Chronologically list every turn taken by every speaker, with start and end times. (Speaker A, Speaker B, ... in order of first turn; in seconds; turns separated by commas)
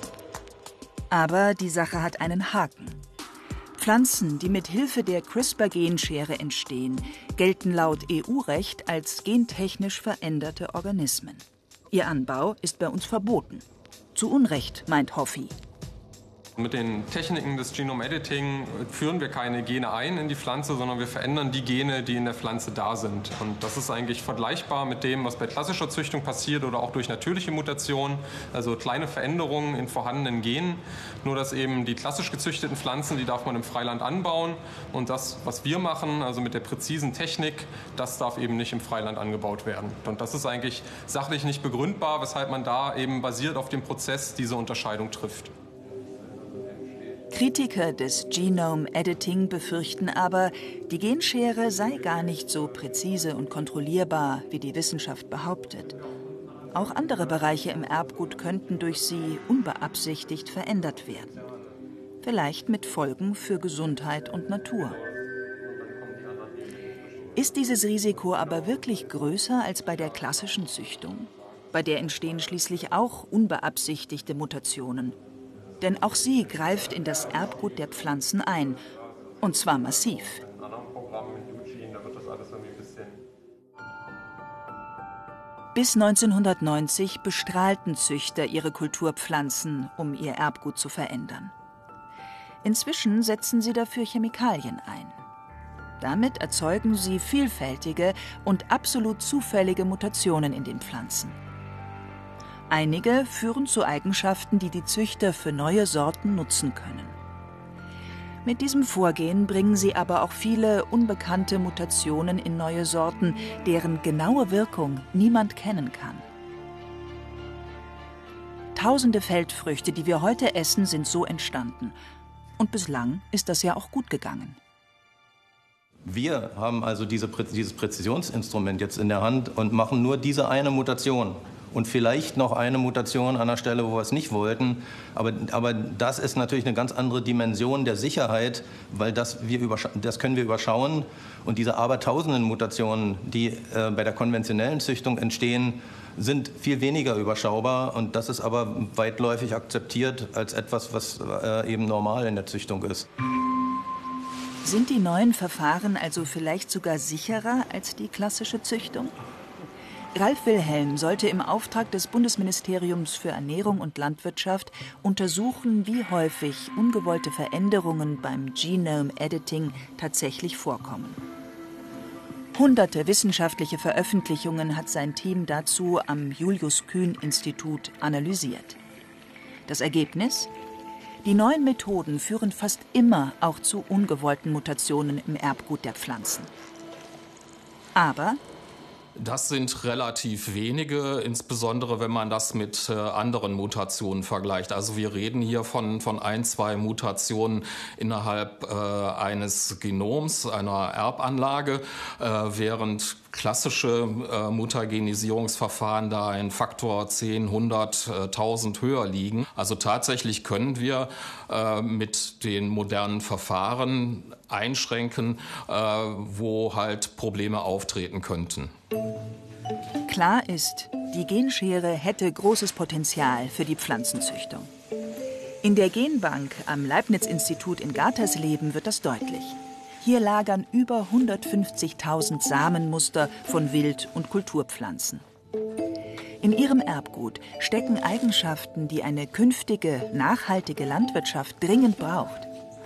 Speaker A: 1.1-3.0, Speaker A: 3.8-13.6, Speaker A: 14.1-15.5, Speaker B: 16.6-45.5, Speaker A: 47.3-56.0, Speaker A: 56.7-61.4, Speaker A: 62.2-65.0, Speaker B: 65.7-66.9, Speaker A: 67.3-75.2, Speaker A: 75.8-78.8, Speaker A: 79.4-80.4, Speaker B: 80.4-83.2, Speaker A: 85.7-91.5, Speaker A: 92.6-95.2, Speaker A: 96.0-101.4, Speaker A: 102.7-107.2, Speaker A: 108.4-116.2, Speaker A: 118.7-122.0, Speaker A: 122.6-124.6, Speaker C: 126.0-153.0, Speaker A: 154.6-159.2, Speaker A: 160.1-171.2, Speaker A: 172.5-178.8, Speaker A: 179.7-180.5, Speaker A: 181.2-186.5, Speaker A: 187.9-188.4, Speaker D: 189.2-218.7, Speaker A: 220.1-224.7, Speaker A: 225.6-235.2, Speaker A: 236.4-242.5